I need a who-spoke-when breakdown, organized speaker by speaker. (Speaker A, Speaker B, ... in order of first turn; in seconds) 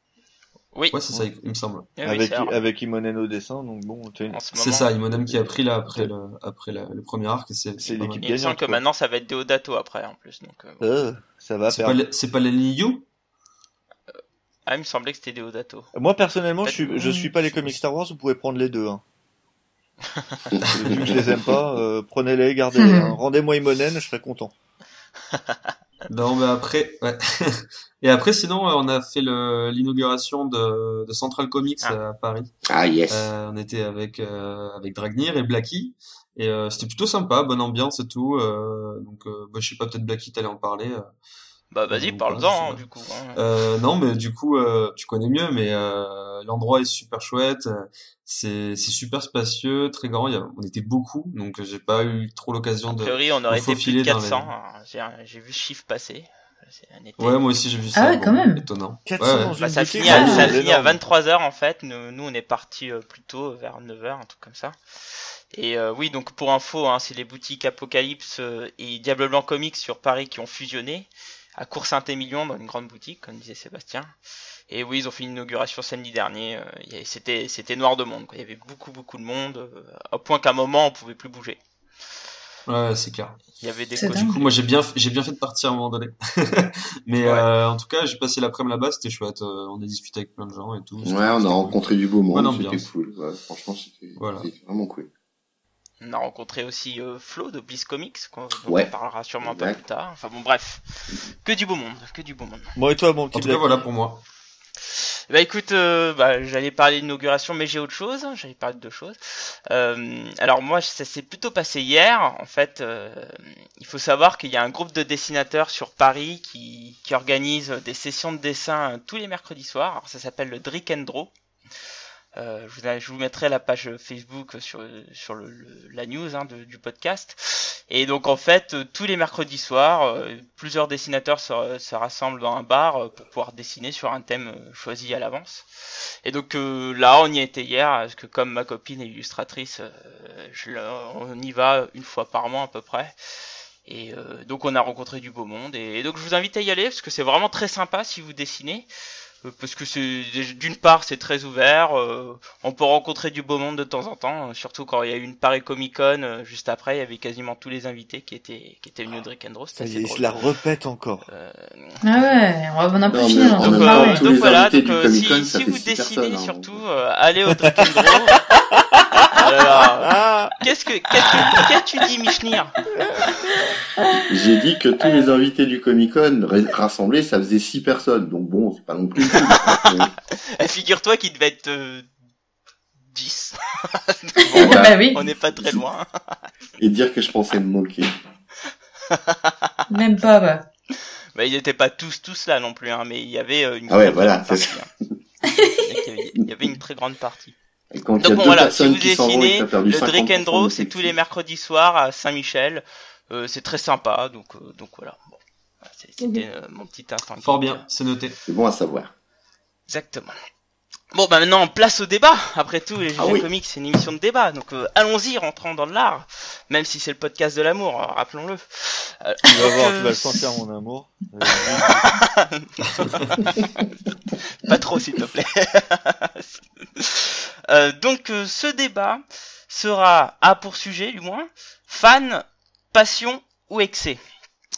Speaker A: 0.9-1.9, 4.6-8.1, 11.7-13.1, 26.1-32.5, 33.1-41.1, 41.9-42.8, 43.4-54.5, 57.2-59.6, 82.7-83.6, 84.1-92.9, 94.2-94.5, 103.3-104.2, 171.3-171.7, 207.4-208.4, 222.9-223.3
Speaker B: 2.0-2.6, 4.3-4.9, 8.0-10.8, 14.7-15.9, 16.6-17.3, 20.1-20.4, 41.7-43.4, 52.9-57.4, 59.5-64.8, 65.5-74.1, 74.7-81.6, 83.6-84.5, 96.0-102.7, 104.9-121.3, 122.4-135.7, 136.2-143.2, 143.9-148.9, 149.4-160.4, 161.3-162.3, 163.6-168.4, 169.3-172.8, 173.3-173.6, 179.2-182.1, 183.1-186.1, 189.1-189.5, 191.3-194.9, 195.5-197.5, 198.2-207.8, 209.9-210.4, 211.1-220.4, 221.7-223.2, 224.6-234.2
Speaker C: 2.0-4.4, 7.8-8.8, 10.8-12.0, 15.9-19.0, 20.7-24.5, 59.1-61.0, 102.8-103.8, 159.8-161.2, 167.6-170.5, 172.9-173.7, 219.5-222.1
Speaker D: 20.5-21.6, 32.7-33.3, 91.0-95.1, 98.7-99.8, 163.1-166.8, 174.1-180.1, 184.6-185.0, 185.5-185.8, 186.8-188.1, 193.9-194.8, 197.9-201.2, 208.4-209.1, 213.2-213.5
Speaker E: 22.8-23.1, 57.9-58.6, 60.1-60.5, 84.0-84.4, 162.0-164.3, 184.5-185.2, 189.9-190.6